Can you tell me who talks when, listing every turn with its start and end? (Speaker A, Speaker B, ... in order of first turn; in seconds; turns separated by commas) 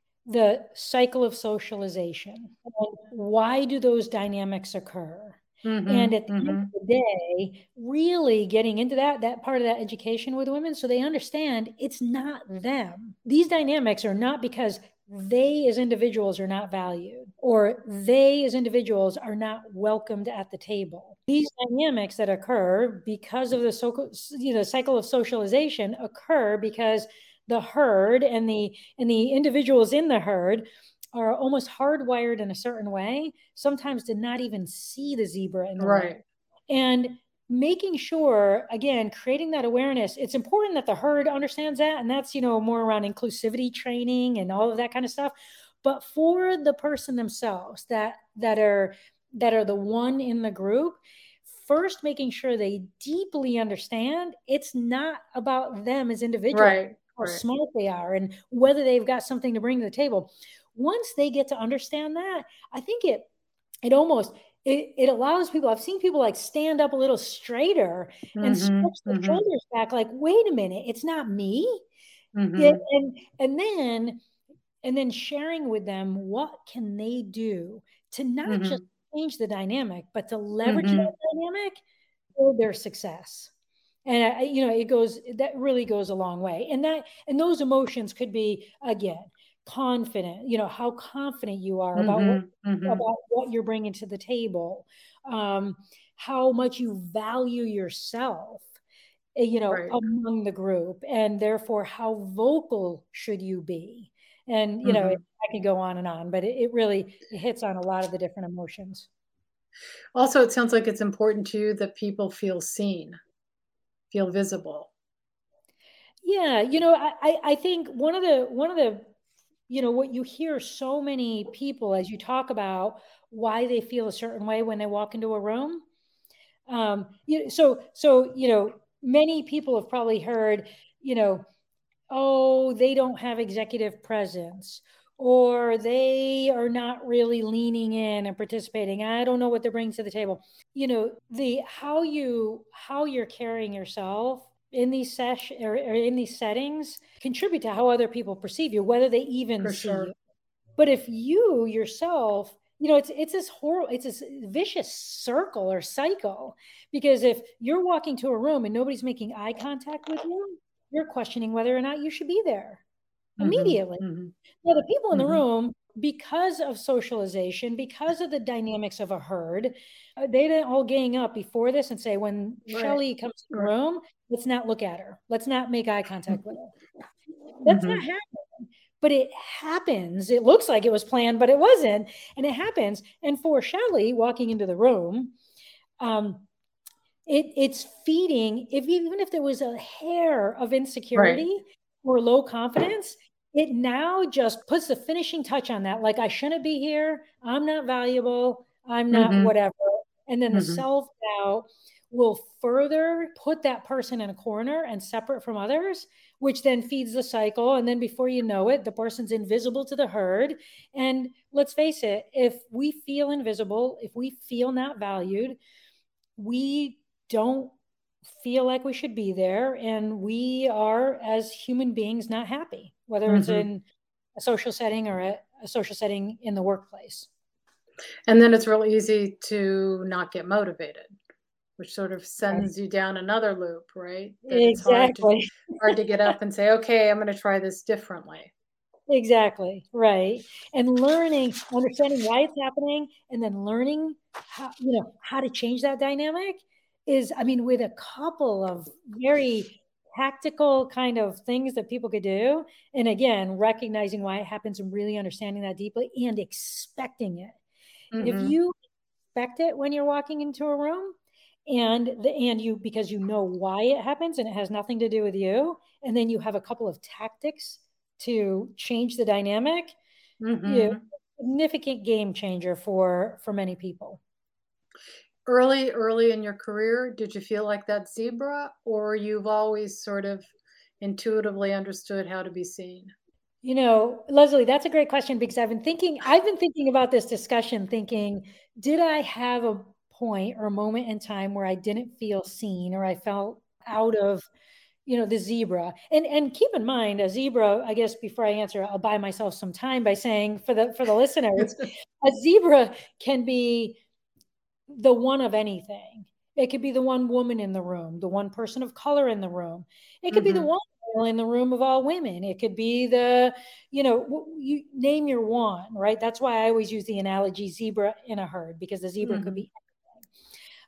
Speaker A: 0.2-36.1, Speaker B: 5.6-6.7, Speaker B: 35.8-36.2, Speaker A: 36.7-63.3, Speaker B: 56.5-57.4, Speaker A: 63.8-71.8, Speaker B: 68.3-69.4, Speaker B: 72.3-72.8, Speaker A: 72.5-74.2, Speaker A: 74.8-81.8, Speaker B: 78.5-78.8, Speaker B: 80.6-81.1, Speaker A: 82.3-83.5, Speaker A: 84.0-98.7, Speaker B: 92.0-93.0, Speaker A: 99.3-109.1, Speaker B: 99.7-100.0, Speaker B: 104.8-105.2, Speaker B: 110.1-113.2, Speaker B: 114.1-114.9, Speaker A: 116.2-119.1, Speaker A: 119.7-125.8, Speaker A: 126.7-131.4, Speaker A: 132.1-150.1, Speaker B: 149.6-150.1, Speaker A: 150.8-162.8, Speaker B: 163.4-164.3, Speaker A: 163.4-164.0, Speaker A: 164.6-176.7, Speaker B: 165.1-165.4, Speaker B: 172.7-173.0, Speaker A: 177.6-185.3, Speaker B: 177.7-178.0, Speaker A: 186.0-186.5, Speaker A: 187.2-215.6, Speaker B: 191.1-191.4, Speaker B: 199.1-199.5, Speaker B: 200.5-200.8, Speaker A: 216.3-217.7, Speaker A: 218.3-223.8, Speaker B: 223.3-223.7, Speaker A: 224.3-227.3, Speaker B: 228.3-231.1, Speaker B: 231.8-238.5, Speaker A: 234.5-236.0, Speaker A: 239.1-257.6, Speaker B: 258.1-258.5, Speaker A: 258.2-258.7, Speaker A: 259.3-261.1, Speaker A: 261.7-269.9, Speaker B: 270.4-271.0, Speaker A: 270.6-274.2, Speaker B: 275.4-280.5, Speaker B: 281.0-283.1, Speaker A: 283.6-294.5, Speaker A: 295.1-304.0, Speaker A: 304.9-319.8, Speaker B: 310.3-310.7, Speaker B: 319.2-319.6